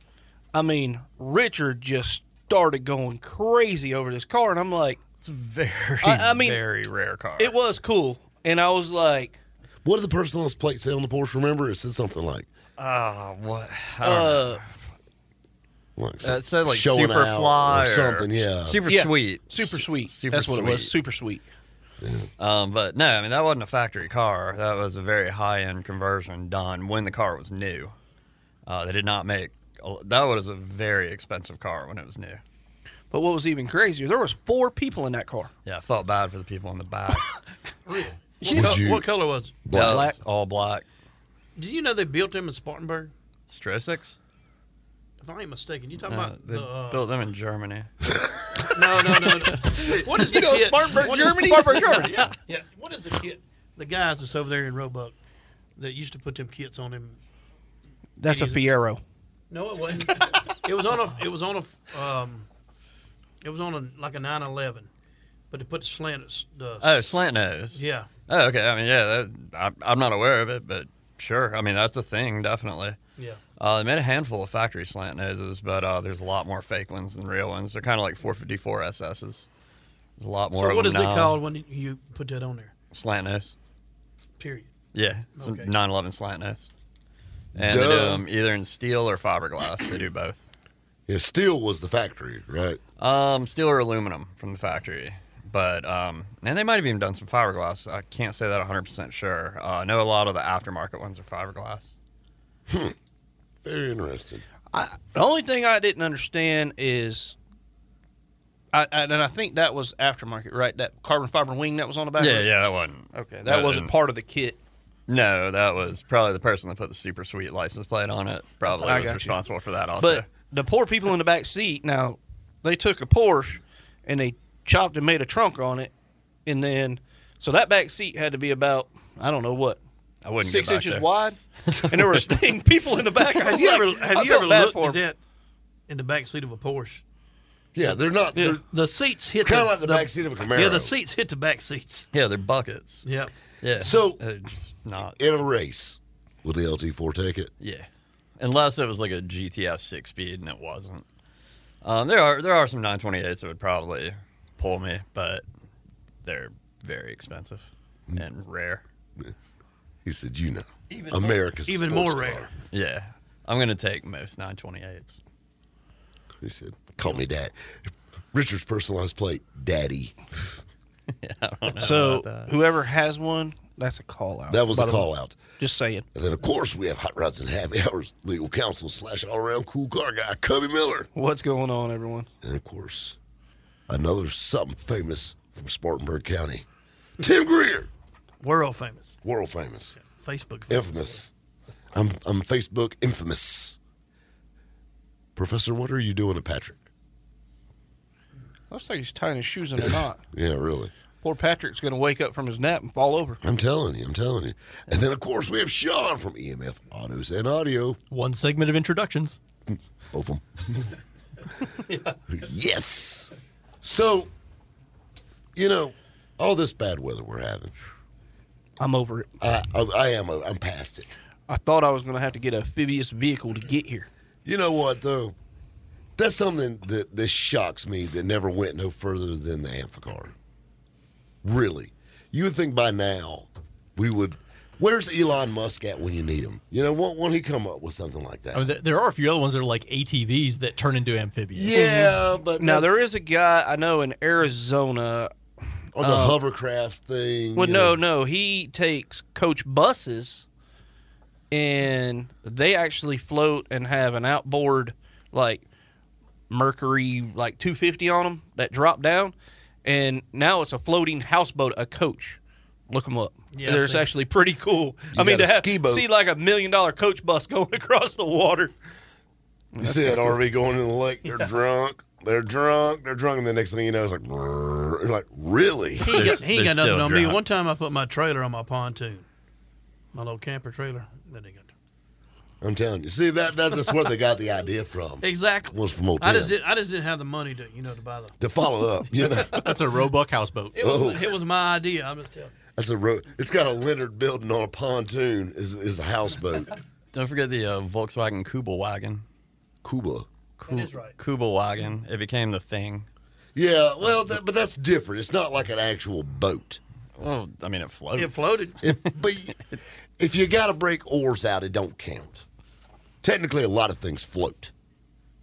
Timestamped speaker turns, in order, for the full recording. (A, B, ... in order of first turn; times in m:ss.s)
0:00.5-0:05.0 A
0:05.2-0:07.6 B
0:06.0-0:06.6 A
0:07.4-0:09.4 A
0:09.8-0:12.5 C
0:12.8-0:14.6 B
0:14.0-0:14.6 A
0:16.0-0:18.8 C
0:16.2-0:20.9 B
0:18.9-0:21.4 A
0:22.0-0:22.3 C
0:22.4-0:27.9 B
0:28.6-0:32.4 B
0:33.1-0:35.5 A
0:35.7-0:37.3 B
0:37.9-0:39.6 D
0:38.5-0:39.1 C
0:39.6-0:40.1 C
0:39.7-0:40.9 B
0:39.8-0:40.2 A
0:41.6-0:43.1 D
0:43.5-0:44.2 B
0:45.2-0:47.1 D
0:46.1-0:47.9 B
0:48.2-0:48.4 C
0:48.8-0:55.2 D
0:49.6-0:52.3 A
0:55.8-0:57.2 D
0:58.2-0:59.0 A
0:58.2-0:58.6 D
0:59.5-1:02.5 D
1:03.4-1:04.9 D
1:05.5-1:08.1 D
1:06.8-1:13.0 B
1:13.6-1:19.5 B
1:20.2-1:21.4 B
1:20.5-1:22.7 D
1:22.9-1:23.6 B
1:24.4-1:24.7 D
1:24.9-1:26.7 B
1:25.3-1:25.7 D
1:27.6-1:28.2 C
1:27.6-1:30.5 B
1:31.1-1:32.8 C
1:33.0-1:41.9 B
1:42.7-1:42.9 C
1:43.6-1:44.4 C
1:44.7-1:47.4 A
1:48.7-1:52.5 A
1:52.2-1:53.9 B
1:53.1-1:54.6 A
1:55.1-2:00.2 B
1:58.6-1:59.4 A
2:00.0-2:05.9 A
2:06.4-2:09.8 A
2:10.2-2:11.1 B
2:10.4-2:15.0 A
2:11.7-2:12.4 B
2:13.3-2:15.2 D
2:15.9-2:17.0 D
2:17.8-2:18.6 C
2:18.4-2:22.1 D
2:19.4-2:20.9 C
2:22.1-2:23.1 B
2:23.0-2:23.3 D
2:23.6-2:25.2 B
2:23.8-2:24.2 C
2:25.2-2:27.5 C
2:27.6-2:27.9 B
2:28.4-2:31.0 B
2:31.8-2:35.4 B
2:36.2-2:38.8 B
2:40.0-2:42.5 C
2:40.9-2:42.5 D
2:42.7-2:45.2 B
2:46.4-2:50.2 C
2:51.2-2:52.5 B
2:51.8-2:56.0 A
2:54.5-2:55.4 C
2:56.1-3:01.1 C
3:01.1-3:02.3 A
3:02.4-3:03.2 C
3:03.9-3:06.7 C
3:07.2-3:07.9 C
3:08.4-3:09.2 D
3:09.2-3:10.0 C
3:10.0-3:11.2 D
3:10.7-3:11.3 C
3:11.9-3:13.8 C
3:15.4-3:16.8 C
3:18.7-3:20.2 A
3:19.8-3:20.9 C
3:21.2-3:23.4 A
3:23.4-3:28.0 C
3:28.1-3:29.4 E
3:30.1-3:30.9 C
3:32.3-3:34.3 C
3:35.6-3:37.7 C
3:38.8-3:39.3 A
3:39.4-3:41.2 C
3:41.5-3:44.1 A
3:44.4-3:45.4 C
3:46.2-3:50.3 C
3:51.4-3:58.7 C
3:58.5-4:01.8 E
4:01.5-4:03.1 C
4:01.7-4:05.3 A
4:05.9-4:08.0 C
4:06.0-4:06.4 A
4:07.6-4:10.4 A
4:11.5-4:15.6 A
4:16.5-4:19.3 A
4:19.8-4:28.7 A
4:23.5-4:24.1 D
4:25.1-4:26.1 C
4:29.7-4:30.3 A
4:29.8-4:36.4 C
4:31.2-4:31.5 D
4:36.0-4:39.2 D
4:36.1-4:37.4 B
4:40.1-4:41.7 D
4:42.6-4:46.6 C
4:45.2-4:48.4 D
4:48.4-4:49.8 C
4:49.1-4:49.6 D
4:49.5-4:50.8 E
4:50.7-4:52.5 D
4:50.8-4:51.4 C
4:52.8-4:56.8 C
4:57.1-4:59.2 B
4:59.8-5:00.3 C
5:00.6-5:01.2 D
5:00.6-5:03.1 B
5:03.6-5:06.8 C
5:07.2-5:08.9 B
5:08.1-5:08.8 D
5:08.8-5:09.6 C
5:10.2-5:12.4 C
5:13.2-5:14.7 C